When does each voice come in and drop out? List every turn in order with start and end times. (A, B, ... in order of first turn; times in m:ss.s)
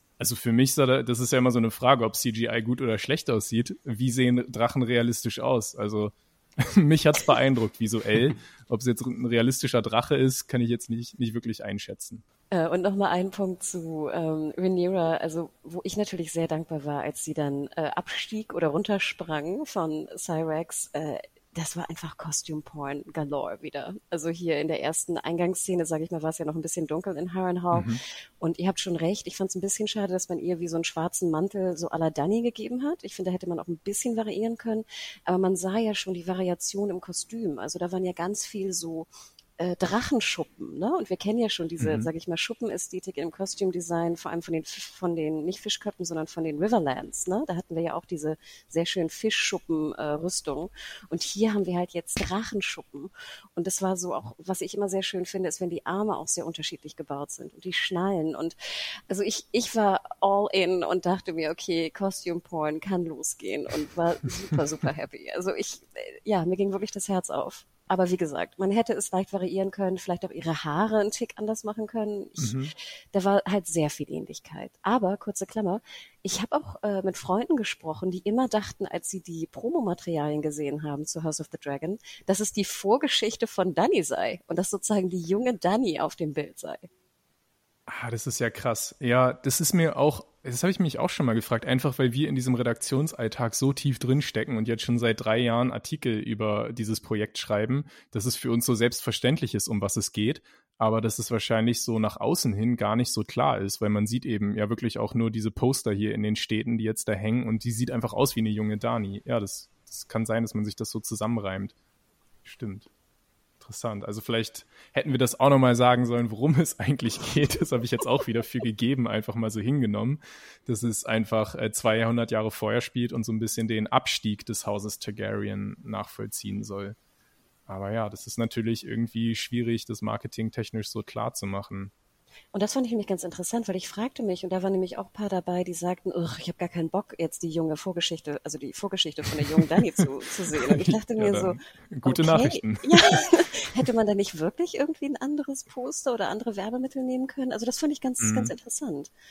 0:00.2-0:12.2 A
0:12.5-0:39.1 B
0:27.7-0:28.0 A
0:39.6-0:58.6 B
0:41.8-0:42.1 A
0:59.1-1:26.9 B
1:12.4-1:12.7 A
1:27.9-1:51.7 A
1:52.4-1:52.9 A
1:53.6-2:07.0 A
2:07.7-2:11.9 A
2:12.5-2:29.1 B
2:20.6-2:23.4 A
2:28.2-2:28.5 A